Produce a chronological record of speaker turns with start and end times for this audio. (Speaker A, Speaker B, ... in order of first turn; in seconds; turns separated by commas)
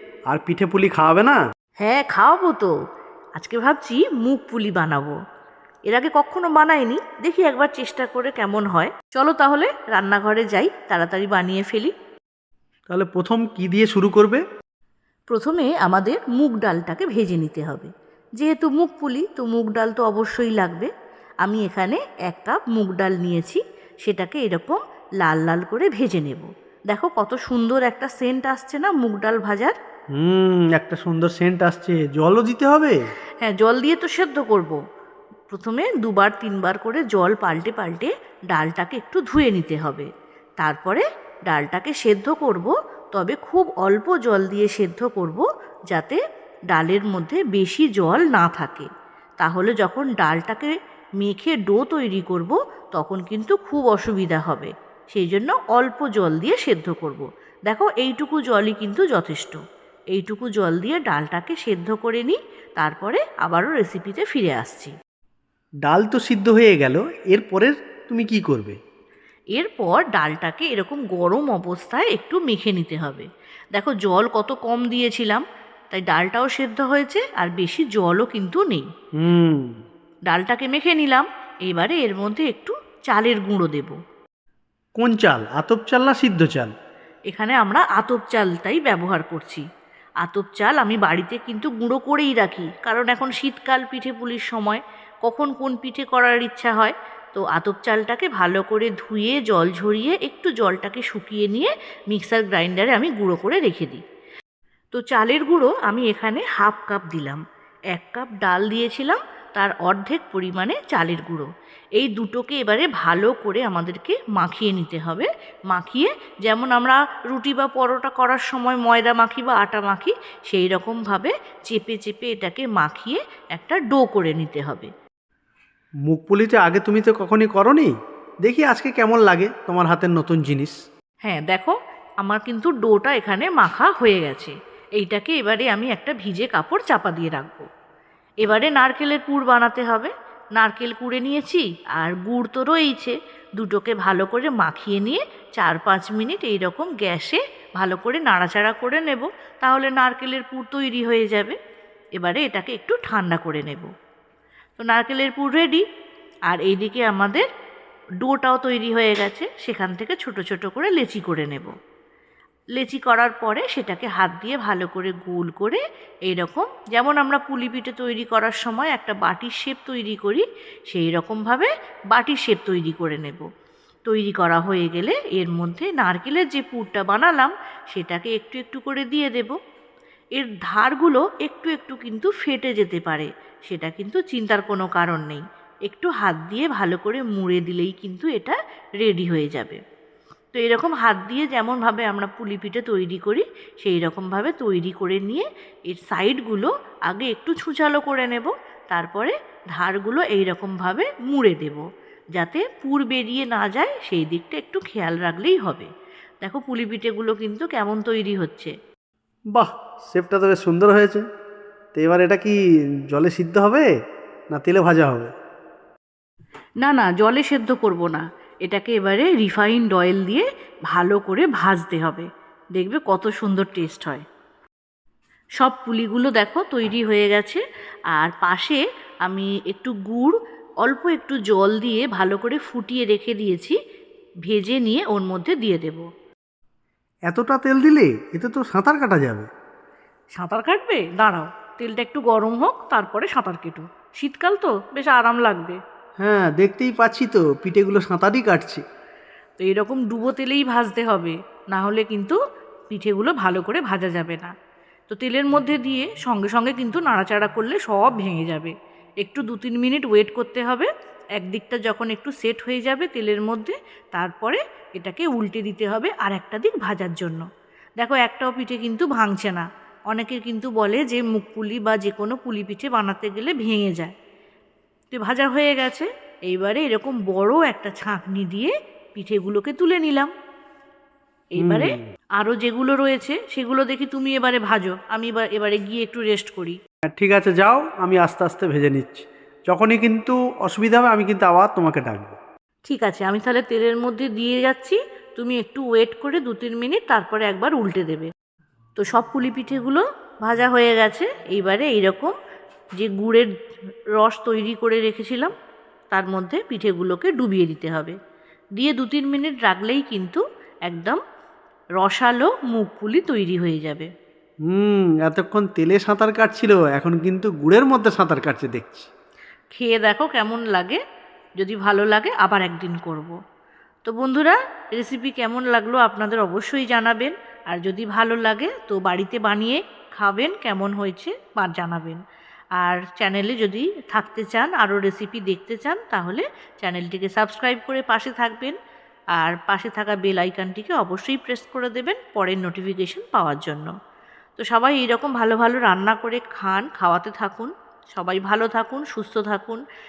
Speaker A: 0.3-1.4, Speaker B: 1.8-2.7, Speaker B: 3.4-5.2, Speaker B: 5.9-11.9, Speaker A: 12.9-14.4, Speaker B: 15.3-20.9, Speaker B: 21.4-29.8, Speaker A: 30.2-33.0, Speaker B: 33.4-34.8, Speaker B: 35.5-40.1, Speaker B: 40.6-48.9, Speaker B: 49.4-59.6, Speaker B: 60.1-64.9, Speaker A: 65.8-68.8, Speaker B: 69.5-78.9, Speaker A: 79.2-79.8, Speaker B: 80.3-84.0, Speaker A: 85.0-86.7, Speaker B: 87.3-89.6, Speaker B: 90.2-104.0, Speaker B: 104.9-107.4, Speaker B: 107.9-124.9, Speaker A: 126.1-127.9, Speaker A: 128.4-130.8, Speaker B: 131.2-137.7, Speaker B: 138.4-151.6, Speaker B: 152.2-153.9, Speaker B: 154.8-155.8, Speaker B: 156.5-157.5, Speaker B: 158.2-161.7, Speaker B: 162.8-173.5, Speaker B: 174.1-179.6, Speaker B: 180.4-189.8, Speaker B: 190.5-201.8, Speaker B: 202.4-205.9, Speaker B: 206.4-208.7, Speaker A: 209.5-211.3, Speaker A: 211.9-213.9, Speaker A: 214.5-215.3, Speaker B: 216.8-224.2, Speaker B: 225.6-227.6, Speaker B: 228.1-233.8, Speaker B: 234.5-236.1, Speaker A: 237.3-239.5, Speaker B: 240.4-245.8, Speaker A: 246.2-248.8, Speaker B: 249.6-252.4, Speaker B: 252.9-254.5, Speaker B: 255.1-267.5, Speaker B: 268.0-274.1, Speaker B: 275.1-280.3, Speaker B: 281.5-286.8, Speaker A: 281.6-282.0, Speaker A: 287.2-292.4, Speaker B: 292.9-298.3, Speaker B: 299.0-302.3, Speaker B: 303.0-303.5, Speaker B: 304.2-305.5, Speaker B: 306.1-308.2, Speaker B: 308.8-311.2, Speaker B: 312.0-314.1, Speaker A: 314.7-319.1, Speaker B: 319.7-321.0, Speaker B: 321.6-323.4, Speaker B: 324.1-332.2, Speaker B: 332.8-338.8, Speaker B: 339.4-343.9, Speaker B: 344.6-349.8